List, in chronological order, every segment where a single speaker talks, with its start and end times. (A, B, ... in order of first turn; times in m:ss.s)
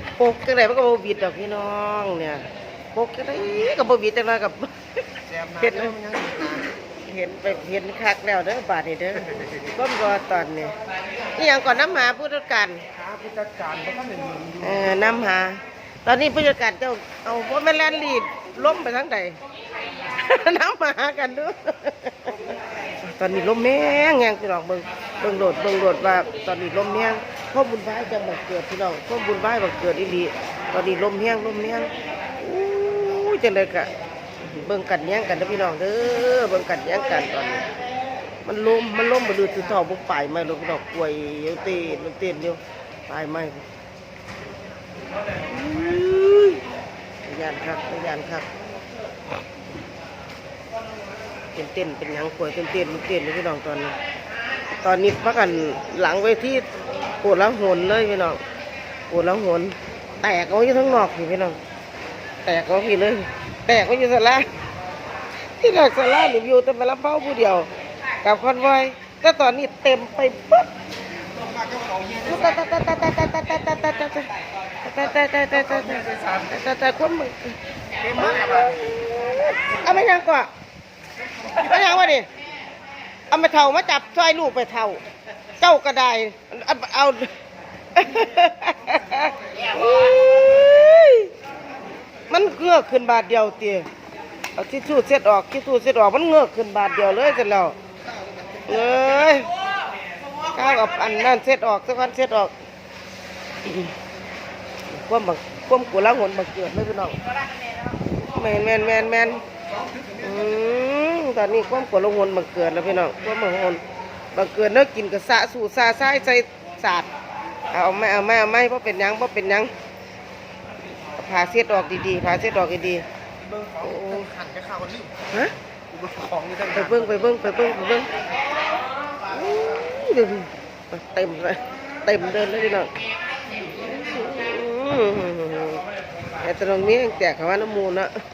0:00.2-0:04.7 A
0:05.3-0:06.6 B
0:05.6-0:10.7 A
0:11.4-0:12.8 A
0:13.0-0:14.6 B
0:14.6-0:19.4 A
0:20.1-0:22.4 A
0:23.1-0:37.6 A
0:38.4-0:43.6 A
0:45.5-0:46.6 A
0:47.2-0:48.5 A
0:51.6-0:54.0 A
0:54.8-0:56.6 A
0:57.2-0:58.4 A
0:59.1-1:01.6 A
1:02.4-1:04.4 A
1:05.6-1:07.7 A
1:08.2-1:10.7 A
1:11.4-1:12.5 B
1:12.2-1:14.3 A
1:14.8-1:20.5 A
1:15.8-1:16.4 B
1:21.6-1:22.3 A
1:23.3-1:25.0 A
1:25.6-1:27.3 A
1:28.0-1:31.3 A
1:32.3-1:33.9 A
1:34.6-1:37.8 A
1:38.7-1:39.5 A
1:40.5-1:42.5 A
1:43.6-1:43.9 A
1:44.9-1:47.2 A
1:48.3-1:49.4 A
1:50.2-1:53.8 A
1:54.4-1:57.1 A
1:57.7-1:59.7 A
2:01.2-2:03.0 A
2:03.4-2:05.2 B
2:03.8-2:04.2 A
2:05.9-2:07.0 B
2:06.7-2:08.1 A
2:09.3-2:12.9 A
2:13.7-2:15.8 A
2:16.4-2:18.1 A